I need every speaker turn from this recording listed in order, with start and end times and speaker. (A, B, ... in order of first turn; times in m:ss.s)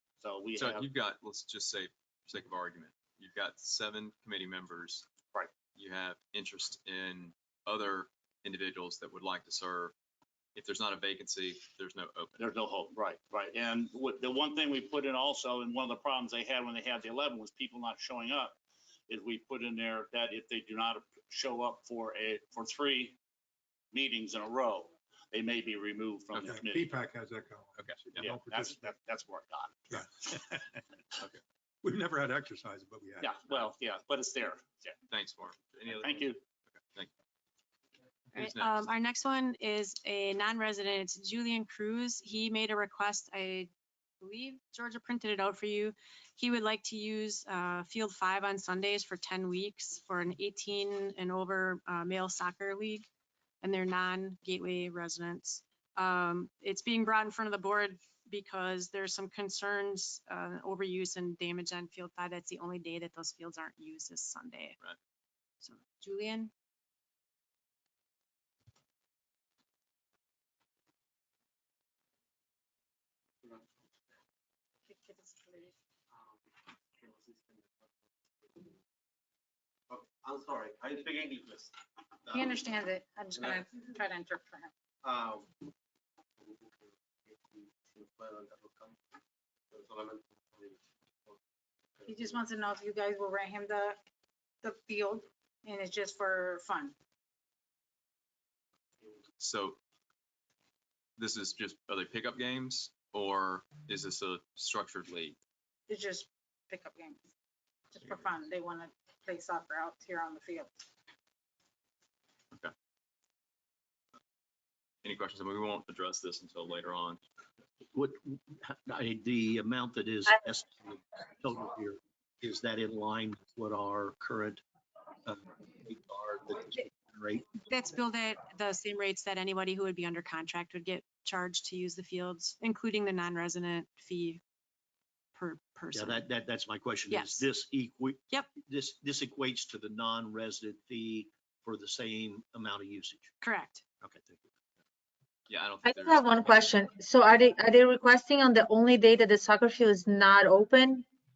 0:00.2-0:00.9 A
0:00.6-0:05.1 B
0:05.7-0:09.9 B
0:10.6-0:12.5 B
0:12.4-0:23.2 A
0:23.9-0:26.9 A
0:26.4-0:29.0 C
0:27.8-0:28.3 B
0:28.2-0:30.3 A
0:29.9-0:30.8 C
0:31.8-0:33.7 C
0:33.2-0:35.0 A
0:35.1-0:37.1 B
0:35.9-0:36.4 A
0:38.3-0:38.9 B
0:38.4-0:43.7 D
0:44.2-0:53.0 D
0:53.6-1:04.8 D
1:05.6-1:06.5 D
1:13.4-1:14.1 E
1:14.9-1:15.8 F
1:16.1-1:16.4 E
1:17.0-1:18.8 E
1:19.9-1:21.7 E
1:22.3-1:22.6 E
1:22.3-1:24.7 F
1:23.4-1:23.6 E
1:25.0-1:25.5 E
1:26.4-1:29.0 E
1:29.7-1:31.4 E
1:32.0-1:32.4 E
1:32.1-1:34.0 F
1:34.6-1:36.9 F
1:39.4-1:39.8 B
1:41.2-1:45.4 B
1:45.9-1:47.2 F
1:47.9-1:50.7 F
1:55.0-1:57.2 B
1:57.9-2:04.6 G
2:05.2-2:07.5 G
2:07.7-2:14.4 D
2:15.3-2:16.3 D
2:15.9-2:23.3 G
2:17.1-2:17.5 D
2:23.4-2:23.8 D
2:24.0-2:24.5 G
2:25.5-2:26.8 B
2:25.9-2:31.0 H